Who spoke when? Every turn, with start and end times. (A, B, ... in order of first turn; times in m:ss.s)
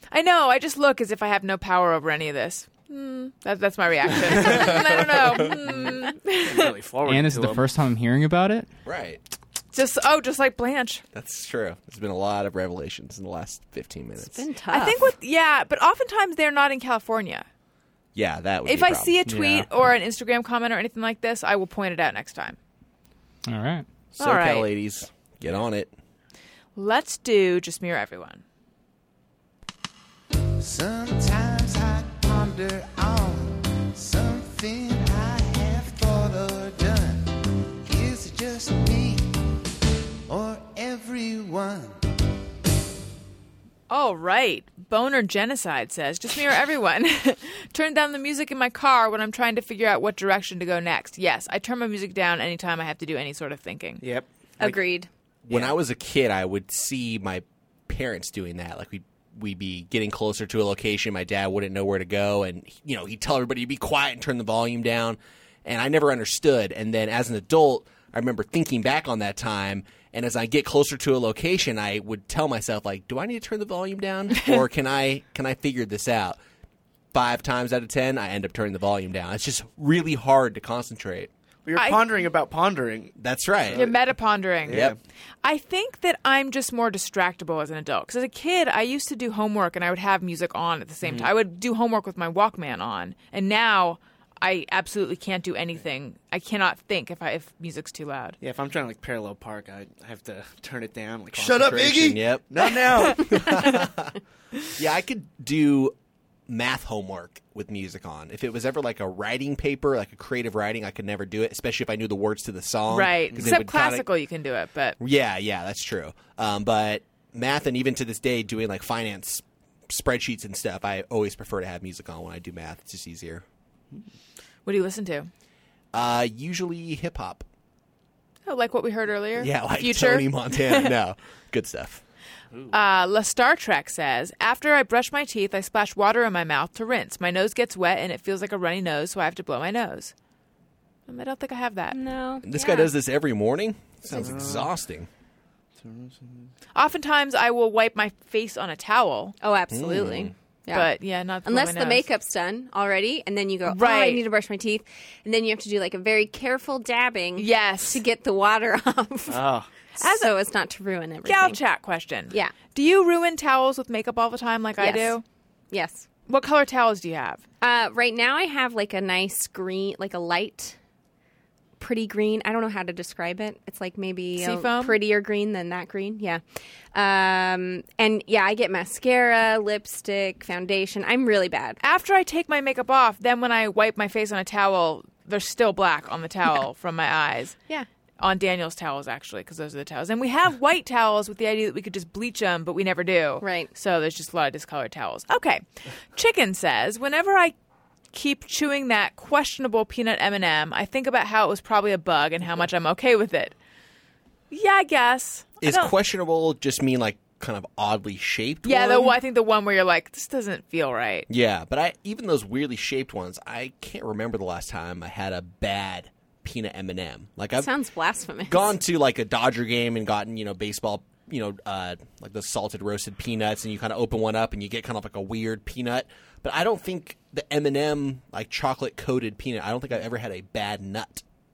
0:00.1-0:06.7 A
0:04.3-0:04.9 B
0:05.5-0:07.7 B
0:07.0-0:08.7 C
0:08.9-0:09.2 D
0:09.7-0:11.0 A
0:11.1-0:14.4 D
0:14.2-0:15.1 E
0:14.7-0:17.5 A
0:18.2-0:19.5 D
0:18.7-0:22.6 A
0:19.3-0:19.7 C
0:23.5-0:23.9 C
0:24.1-0:25.9 D
0:24.2-0:24.7 A
0:26.8-0:28.4 A
0:30.6-0:37.3 F
0:37.8-0:39.3 F
0:40.3-0:42.0 F
0:43.9-0:54.0 A
0:54.0-0:54.8 B
0:54.6-0:55.1 E
0:55.5-1:16.4 D
0:55.5-0:55.8 B
1:14.4-1:14.6 A
1:17.1-1:21.3 D
1:21.6-1:23.2 B
1:21.8-1:22.0 A
1:23.2-1:23.9 D
1:23.7-1:24.0 B
1:23.8-1:24.8 A
1:24.6-1:25.0 B
1:24.7-1:25.0 D
1:25.4-1:38.4 A
1:31.0-1:31.3 B
1:38.4-1:43.6 B
1:41.3-1:44.2 D
1:44.7-1:46.0 D
1:46.5-1:54.0 D
1:52.9-1:55.0 A
1:53.3-1:53.9 B
1:55.0-2:03.4 D
2:04.7-2:05.3 A
2:05.9-2:07.5 D
2:08.5-2:10.9 A
2:09.4-2:12.0 D
2:12.7-2:20.1 A
2:21.1-2:22.0 A
2:21.9-2:22.9 E
2:22.4-2:25.1 D
2:24.1-2:24.7 B
2:25.8-2:26.5 B
2:26.8-2:29.4 A
2:29.4-2:30.9 E
2:29.7-2:30.3 D
2:30.7-2:32.1 A
2:31.4-2:39.5 E
2:33.7-2:34.2 A
2:37.4-2:38.0 A
2:39.3-2:39.7 B
2:40.0-2:41.6 E
2:40.0-2:40.3 A
2:41.2-2:45.2 A
2:44.8-2:45.2 E
2:45.7-2:46.1 E
2:46.3-2:47.4 A
2:47.6-2:50.8 E
2:51.8-2:56.4 E
2:54.4-2:55.0 A
2:56.9-3:01.8 E
3:01.8-3:07.6 A
3:08.2-3:17.6 A
3:13.4-3:13.7 E
3:18.1-3:23.6 A
3:24.5-3:25.9 A
3:25.6-3:29.2 D
3:28.6-3:31.3 A
3:31.3-3:37.7 D
3:37.6-3:38.8 E
3:38.5-3:51.2 D